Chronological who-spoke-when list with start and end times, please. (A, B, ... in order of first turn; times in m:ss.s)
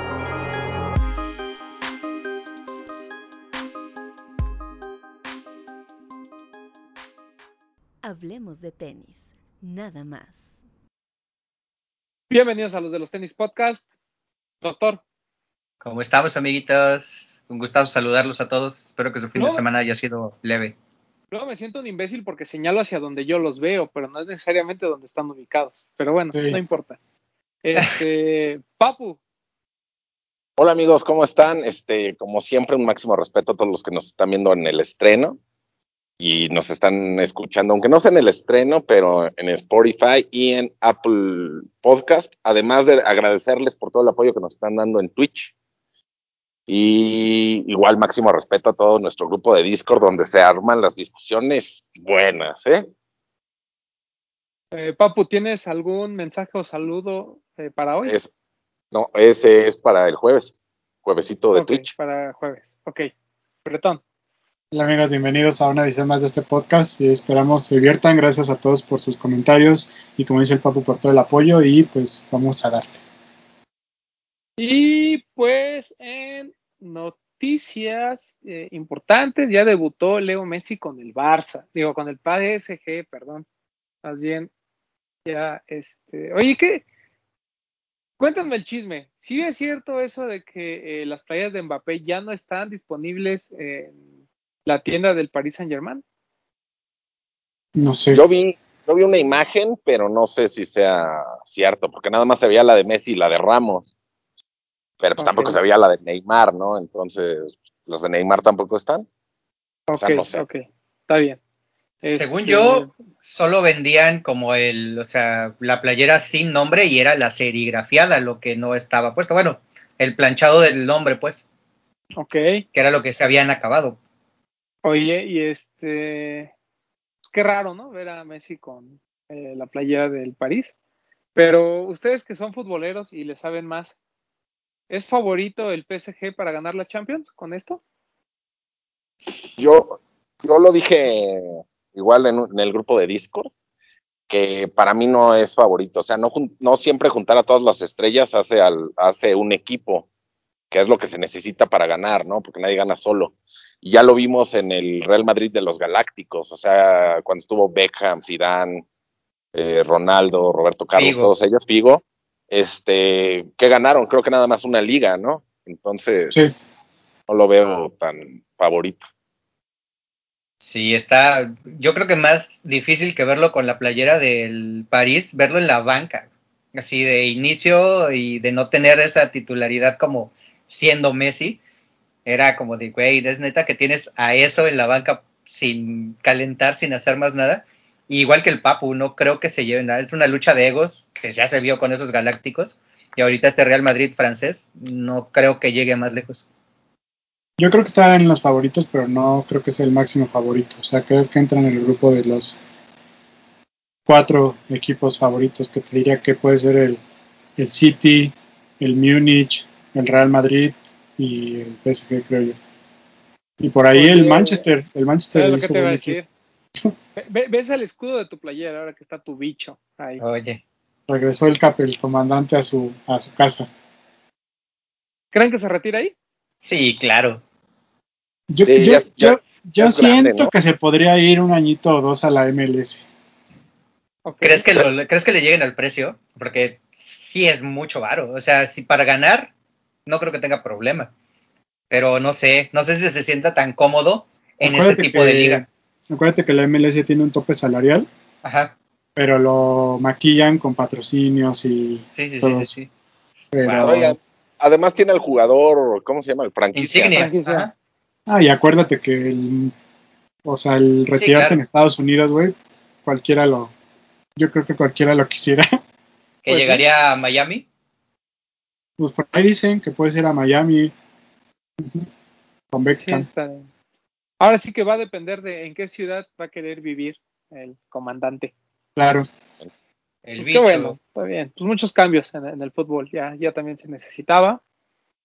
0:08.0-0:10.6 A
0:12.3-0:13.8 B
0:14.6-0:15.0 B
0:15.8-0:20.7 C
0:19.4-0:19.6 B
0:21.3-0:27.0 B
0:26.3-0:26.6 D
0:27.6-0:29.2 B
0:30.6-0:35.4 E
0:36.2-0:45.5 E
0:46.7-0:52.8 E
0:54.7-0:58.2 B
0:58.9-1:00.5 E
1:01.0-1:01.9 E
1:01.5-1:03.1 B
1:03.6-1:04.0 B
1:04.7-1:13.0 D
1:14.6-1:23.4 B
1:24.0-1:24.5 B
1:25.2-1:26.8 B
1:28.2-1:34.0 B
1:34.7-1:36.0 B
1:37.8-1:38.2 D
1:38.1-1:43.9 E
1:45.0-1:49.1 E
1:45.2-1:45.6 B
1:49.9-1:51.4 B
1:50.0-1:50.4 E
1:52.0-2:01.4 C
1:52.0-1:52.9 B
2:02.2-2:02.6 B
2:02.7-2:04.0 C
2:04.8-2:06.5 B
2:07.3-2:10.7 B
2:11.3-2:14.0 B
2:14.9-2:17.8 B
2:19.6-2:23.5 E
2:24.3-2:30.1 E
2:30.7-2:38.8 E
2:39.5-2:46.4 E
2:41.0-2:41.3 C
2:47.3-2:49.0 E
2:50.6-3:01.6 C
3:02.2-3:16.4 C
3:17.6-3:22.6 D
3:24.1-3:27.0 D
3:27.6-3:32.6 D
3:33.6-3:36.2 D
3:33.9-3:34.6 B
3:35.3-3:36.3 B
3:37.2-3:40.2 B
3:40.2-3:40.6 C
3:41.1-3:43.7 D
3:45.3-3:46.1 B
3:46.6-3:47.4 C
3:48.5-3:53.0 D
3:48.6-3:50.5 E
3:54.2-3:54.7 B
3:54.4-3:59.5 C
4:00.0-4:01.1 C
4:01.9-4:05.6 C
4:04.6-4:08.1 D
4:08.4-4:08.7 C
4:09.2-4:12.7 D
4:12.2-4:12.9 C
4:13.5-4:14.2 D
4:13.6-4:14.0 C
4:13.8-4:17.2 E
4:16.7-4:17.7 C
4:17.1-4:17.7 B
4:18.3-4:19.7 D
4:20.4-4:23.7 D
4:21.2-4:21.6 C
4:24.4-4:25.8 D
4:26.4-4:27.6 C
4:26.5-4:26.8 B
4:29.0-4:30.9 D
4:31.8-4:32.1 D
4:32.7-4:33.3 D
4:33.0-4:33.7 B
4:34.4-4:38.5 B
4:39.0-4:39.3 D
4:40.2-4:41.0 C
4:40.4-4:44.6 B